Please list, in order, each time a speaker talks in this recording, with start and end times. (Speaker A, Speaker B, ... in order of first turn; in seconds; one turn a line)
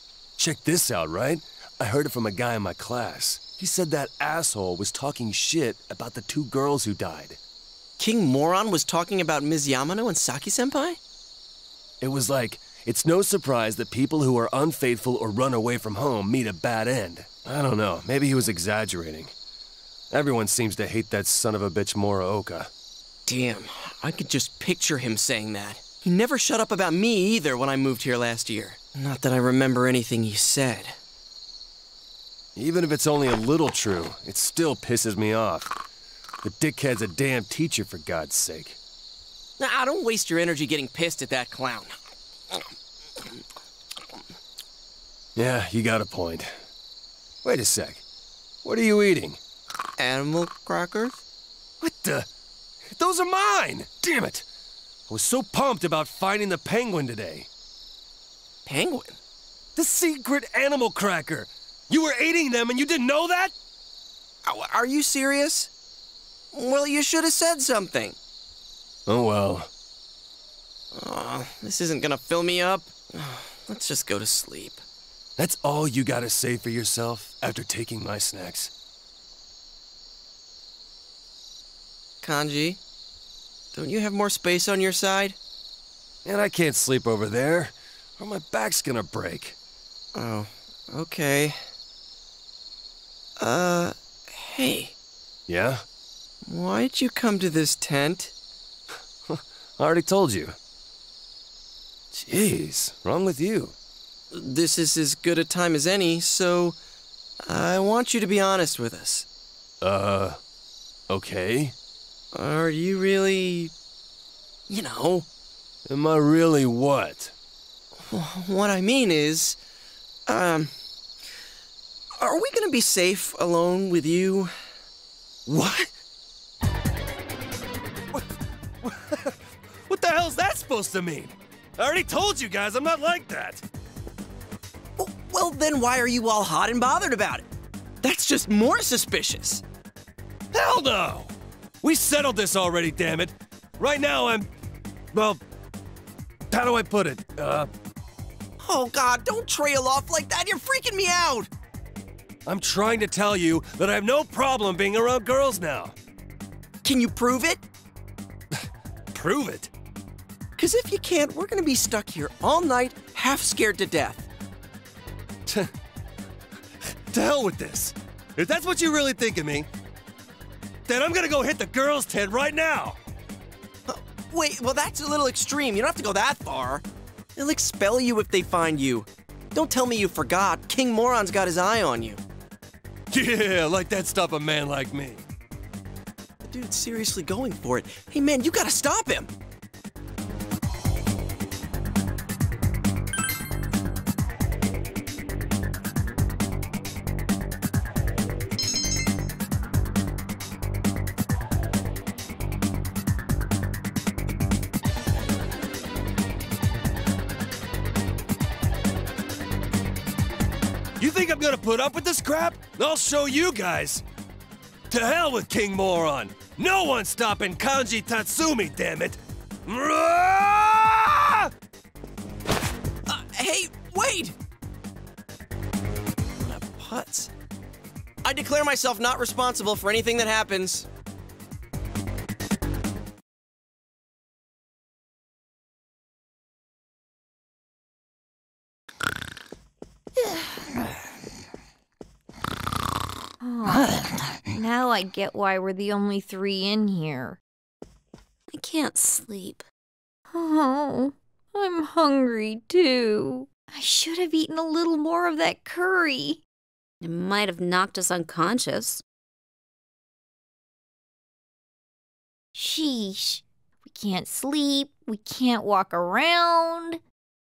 Speaker A: 0.4-7.4
Speaker B: 8.0-11.0
Speaker A: 12.0-19.3
Speaker A: 20.1-22.7
Speaker B: 23.2-31.0
Speaker A: 32.5-35.8
Speaker A: 36.4-38.8
Speaker B: 39.6-42.0
Speaker B: 42.5-43.4
Speaker A: 45.3-46.5
Speaker A: 47.4-48.0
Speaker A: 48.6-49.4
Speaker B: 50.0-51.2
Speaker A: 51.8-52.3
Speaker A: 52.9-54.4
Speaker A: 55.1-57.5
Speaker B: 58.6-59.2
Speaker A: 59.8-63.5
Speaker B: 64.4-65.7
Speaker B: 66.5-68.2
Speaker A: 69.1-69.7
Speaker B: 70.9-74.8
Speaker A: 75.4-78.7
Speaker B: 82.2-82.8
Speaker B: 83.7-85.4
Speaker A: 86.2-89.5
Speaker B: 90.1-91.6
Speaker B: 93.4-94.9
Speaker A: 95.5-95.8
Speaker B: 96.5-98.3
Speaker A: 99.2-100.6
Speaker A: 102.1-103.7
Speaker B: 104.3-106.8
Speaker B: 107.4-109.2
Speaker A: 109.8-110.4
Speaker A: 111.1-111.7
Speaker B: 112.3-113.7
Speaker B: 114.7-115.3
Speaker A: 115.8-117.3
Speaker B: 118.0-119.6
Speaker B: 120.3-120.7
Speaker B: 122.2-124.5
Speaker A: 125.5-125.9
Speaker A: 128.8-129.3
Speaker A: 129.9-133.6
Speaker B: 135.0-137.4
Speaker B: 138.0-139.6
Speaker A: 140.5-144.5
Speaker A: 145.1-145.4
Speaker A: 146.5-147.7
Speaker B: 148.6-151.5
Speaker A: 152.4-155.9
Speaker B: 156.8-157.6
Speaker A: 158.6-159.7
Speaker B: 160.6-164.2
Speaker A: 166.9-169.7
Speaker A: 170.9-173.0
Speaker B: 173.9-176.8
Speaker B: 177.3-182.2
Speaker A: 183.1-185.2
Speaker B: 186.4-189.3
Speaker A: 211.0-214.0
Speaker A: 214.9-221.5
Speaker B: 223.1-224.3
Speaker B: 226.4-227.3
Speaker B: 228.2-230.9
Speaker C: 243.4-247.4
Speaker D: 248.5-249.6
Speaker C: 250.3-256.4
Speaker D: 257.0-259.0
Speaker C: 262.5-267.0